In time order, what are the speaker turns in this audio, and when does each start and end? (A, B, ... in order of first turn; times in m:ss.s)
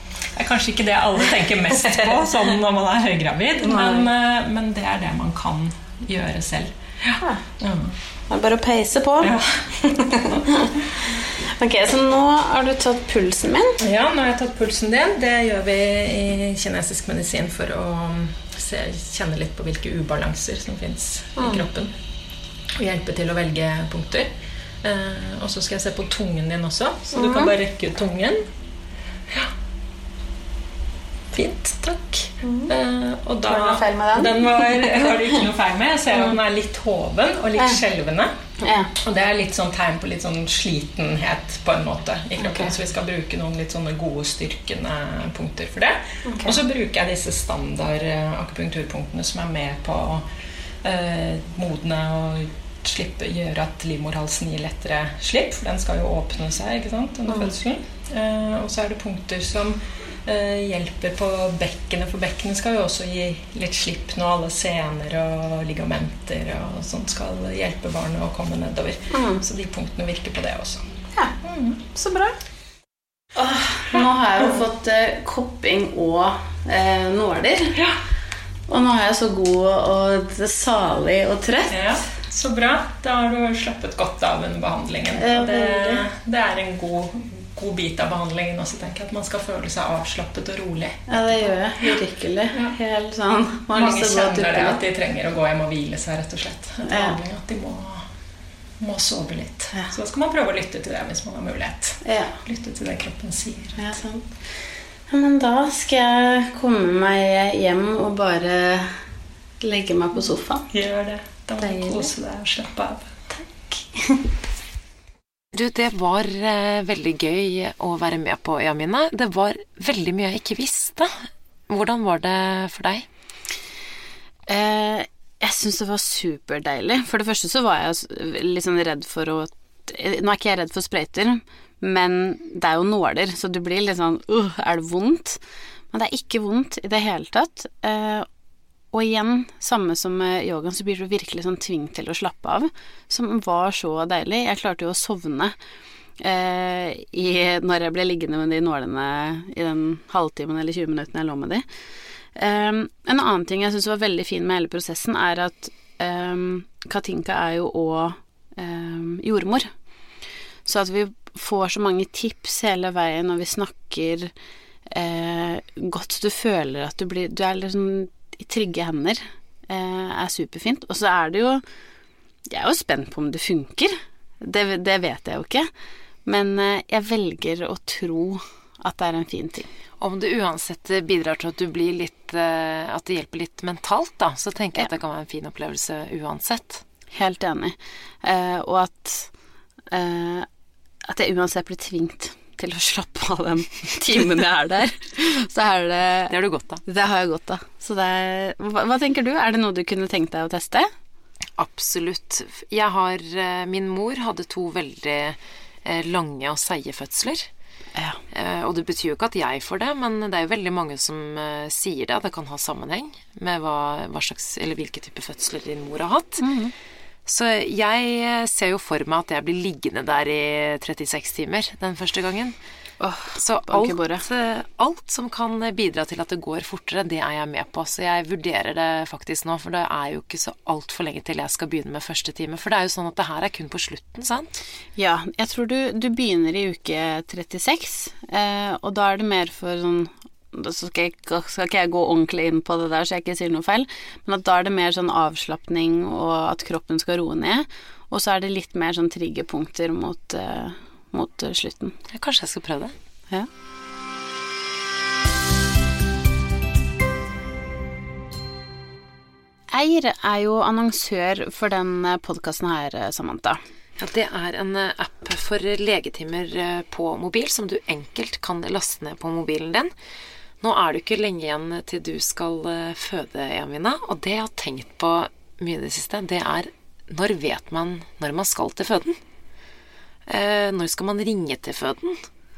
0:00.4-0:08.0 A
0:01.8-0:02.1 B
0:03.6-0:04.1 B
0:08.3-0:13.8 B
0:09.2-0:10.5 A
0:13.8-0:21.9 A
0:21.4-0:21.7 B
0:22.8-0:24.3 A
0:24.8-0:28.4 A
0:27.1-0:27.5 B
0:31.3-0:38.3 A
0:32.4-0:32.7 B
0:33.4-0:35.3 B
0:36.1-0:36.4 B
0:38.6-0:38.9 B
0:39.0-0:50.2 A
0:42.4-0:42.7 B
0:46.2-0:46.6 B
0:50.8-1:10.8 A
0:57.3-0:57.6 B
1:09.1-1:09.4 B
1:11.4-1:11.8 A
1:11.9-1:12.4 B
1:13.4-1:17.8 B
1:18.7-1:21.9 B
1:21.7-1:32.0 A
1:25.2-1:26.1 B
1:31.1-1:34.8 B
1:33.7-1:38.1 A
1:36.8-1:37.2 B
1:38.8-1:43.8 A
1:42.0-1:42.4 B
1:43.8-1:44.3 B
1:45.1-1:48.9 B
1:49.6-1:50.7 B
1:50.7-1:53.3 A
1:51.6-1:52.1 B
1:53.5-1:54.3 B
1:55.5-2:03.1 C
2:04.5-2:18.3 B
2:18.9-2:25.6 B
2:26.2-2:31.6 B
2:32.4-2:39.7 B
2:40.6-2:44.3 B
2:44.9-2:51.6 B
2:52.5-2:55.7 B
2:56.2-2:59.7 B
3:00.0-3:06.8 C
3:07.1-3:09.3 B
3:09.9-3:10.5 B
3:11.0-3:16.3 B
3:16.3-3:16.8 C
3:16.9-3:20.9 B
3:21.6-3:27.5 C
3:28.0-3:28.2 B
3:28.3-3:36.5 C
3:36.4-3:36.7 B
3:37.3-3:42.6 C
3:43.0-3:44.2 B
3:43.4-3:54.6 C
3:55.0-4:12.0 B
4:12.1-4:13.0 C
4:19.7-4:23.6 B
4:24.0-4:29.9 C
4:30.6-4:39.2 C
4:40.3-4:42.3 C